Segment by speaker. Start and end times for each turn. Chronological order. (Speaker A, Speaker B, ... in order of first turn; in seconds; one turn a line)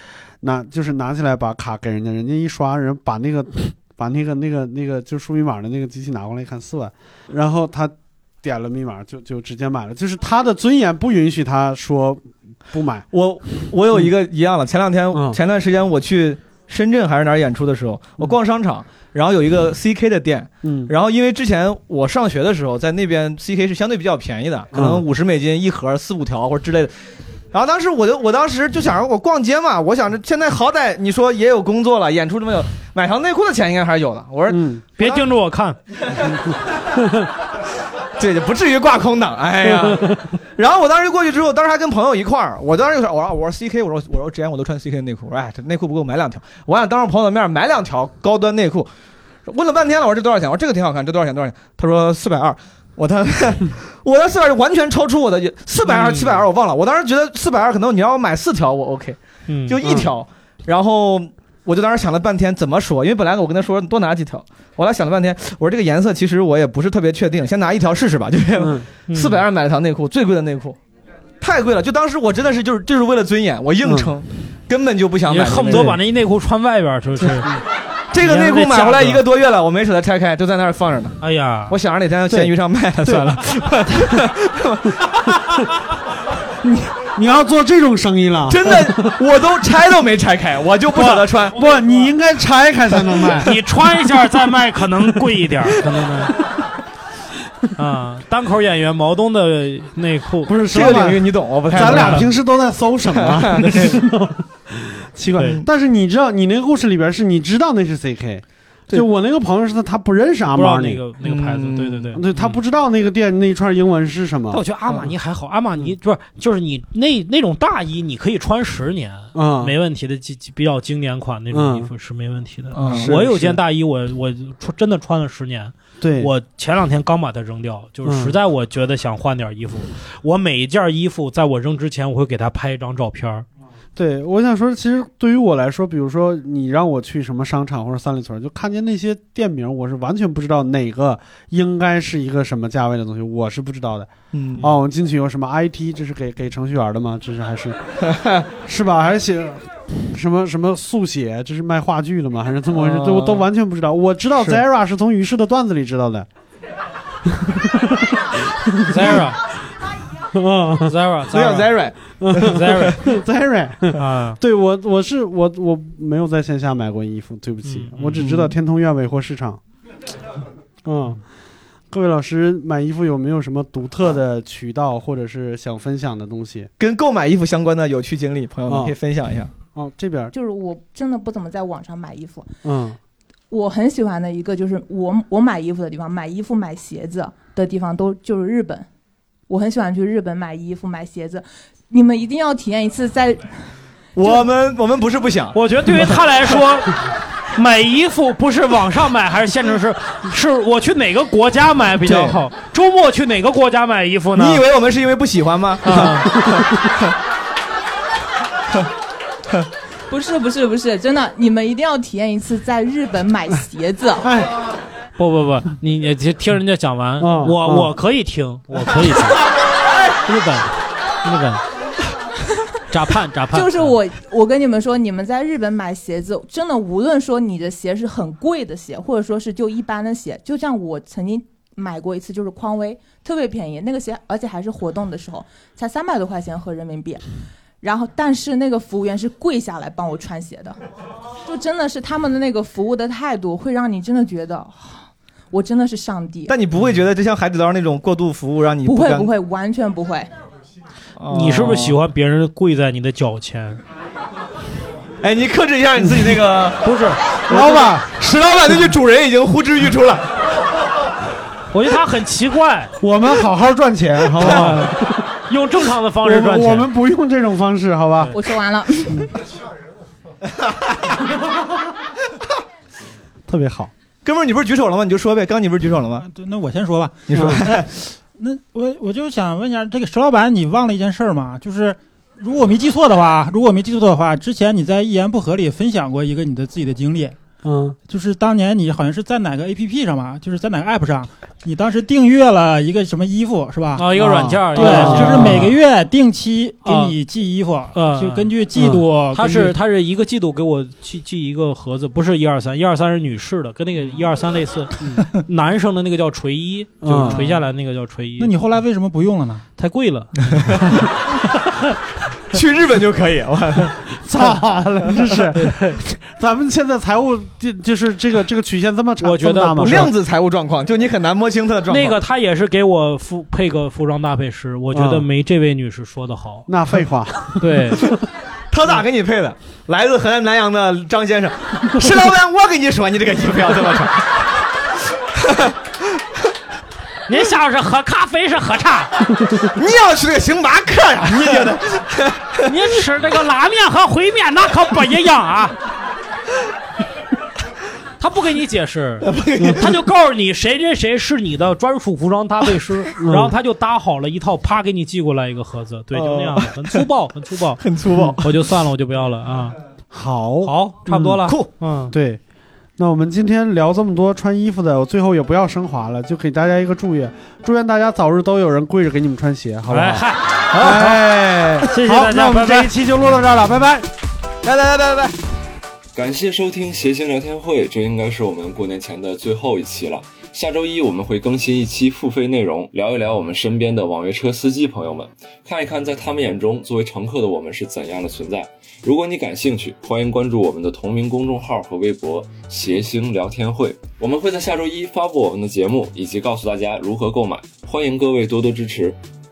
Speaker A: 0.4-13.1
Speaker B: 13.1-26.9
Speaker A: 15.1-15.4
Speaker A: 20.6-20.9
Speaker A: 24.7-25.0
Speaker B: 27.5-35.2
Speaker A: 34.5-34.8
Speaker C: 35.0-35.8
Speaker B: 36.0-36.9
Speaker B: 38.2-48.9
Speaker B: 49.5-70.8
Speaker C: 55.9-56.4
Speaker C: 59.5-59.8
Speaker A: 59.8-60.1
Speaker A: 68.6-68.8
Speaker C: 69.1-69.4
Speaker B: 71.4-76.0
Speaker A: 73.8-74.1
Speaker C: 75.3-77.5
Speaker A: 75.7-76.0
Speaker B: 78.1-81.2
Speaker C: 78.2-79.2
Speaker C: 81.2-81.7
Speaker B: 81.7-85.7
Speaker A: 83.0-83.4
Speaker A: 86.6-89.1
Speaker B: 88.5-91.6
Speaker A: 91.1-93.5
Speaker C: 91.6-92.0
Speaker C: 93.3-96.3
Speaker C: 97.8-100.5
Speaker A: 100.5-111.0
Speaker B: 100.7-102.3
Speaker C: 101.8-102.3
Speaker B: 103.1-104.0
Speaker C: 110.5-112.6
Speaker B: 111.2-112.1
Speaker A: 112.1-114.6
Speaker C: 114.5-133.4
Speaker A: 119.3-119.8
Speaker A: 121.5-121.9
Speaker B: 122.7-123.1
Speaker A: 122.8-123.6
Speaker A: 126.0-126.3
Speaker A: 128.0-128.4
Speaker A: 133.9-147.9
Speaker B: 144.3-144.7
Speaker A: 148.5-156.3
Speaker B: 152.7-153.4
Speaker A: 157.4-158.1
Speaker A: 158.7-159.1
Speaker C: 158.8-159.4
Speaker A: 160.3-160.9
Speaker C: 160.8-161.7
Speaker B: 161.3-162.8
Speaker A: 162.2-169.6
Speaker C: 162.4-163.1
Speaker C: 163.9-164.4
Speaker C: 167.6-168.5
Speaker A: 170.8-171.2
Speaker A: 171.9-176.7
Speaker B: 176.8-179.5
Speaker A: 178.7-178.9
Speaker A: 179.7-180.3
Speaker D: 180.3-182.5
Speaker A: 182.6-183.0
Speaker D: 183.5-188.9
Speaker D: 189.5-193.7
Speaker B: 194.1-196.1
Speaker C: 195.5-197.0
Speaker C: 197.5-204.6
Speaker B: 202.0-202.4
Speaker B: 204.3-207.1
Speaker C: 205.8-206.3
Speaker D: 210.1-214.3
Speaker A: 214.2-214.5
Speaker C: 215.2-219.5
Speaker A: 217.2-217.9
Speaker C: 220.2-221.6
Speaker C: 222.9-223.9
Speaker D: 223.5-237.2
Speaker D: 237.8-240.8
Speaker D: 241.4-246.5
Speaker B: 246.5-249.3
Speaker D: 248.8-250.3
Speaker B: 251.2-252.0
Speaker C: 251.3-253.8
Speaker B: 255.2-256.8
Speaker C: 256.8-257.2
Speaker B: 257.4-260.4
Speaker A: 257.5-258.1
Speaker C: 261.7-262.9
Speaker A: 263.0-265.2
Speaker B: 264.4-264.7
Speaker C: 264.4-266.9
Speaker A: 266.2-268.3
Speaker D: 268.3-269.3
Speaker A: 273.5-273.9
Speaker B: 274.2-276.3
Speaker E: 276.2-287.4
Speaker B: 277.3-277.9
Speaker A: 277.3-277.6
Speaker A: 287.6-287.9
Speaker E: 288.1-299.7
Speaker C: 293.9-295.8
Speaker A: 294.1-295.6
Speaker C: 296.8-297.1
Speaker C: 297.9-308.5
Speaker A: 298.7-299.0
Speaker A: 307.0-307.4
Speaker E: 307.3-307.6
Speaker E: 308.4-309.6
Speaker C: 309.8-310.4
Speaker B: 312.5-314.0
Speaker A: 314.2-320.1
Speaker C: 315.5-316.0
Speaker C: 319.2-320.1
Speaker B: 319.8-322.2
Speaker C: 321.9-326.7
Speaker A: 324.9-325.3
Speaker A: 326.7-328.1
Speaker C: 327.6-328.0
Speaker B: 328.7-334.4
Speaker B: 335.4-335.7
Speaker C: 337.3-339.1
Speaker B: 339.6-342.6
Speaker C: 342.6-345.8
Speaker C: 348.2-357.8
Speaker B: 349.2-349.9
Speaker A: 349.6-349.9
Speaker A: 353.2-353.5
Speaker B: 356.1-357.0
Speaker B: 357.8-358.5
Speaker C: 358.4-359.8
Speaker A: 360.1-361.4
Speaker C: 360.6-362.1
Speaker A: 362.1-362.4
Speaker A: 363.0-374.1
Speaker C: 369.9-370.9
Speaker B: 370.7-371.9
Speaker C: 371.9-373.0
Speaker B: 374.6-375.3
Speaker F: 376.1-399.2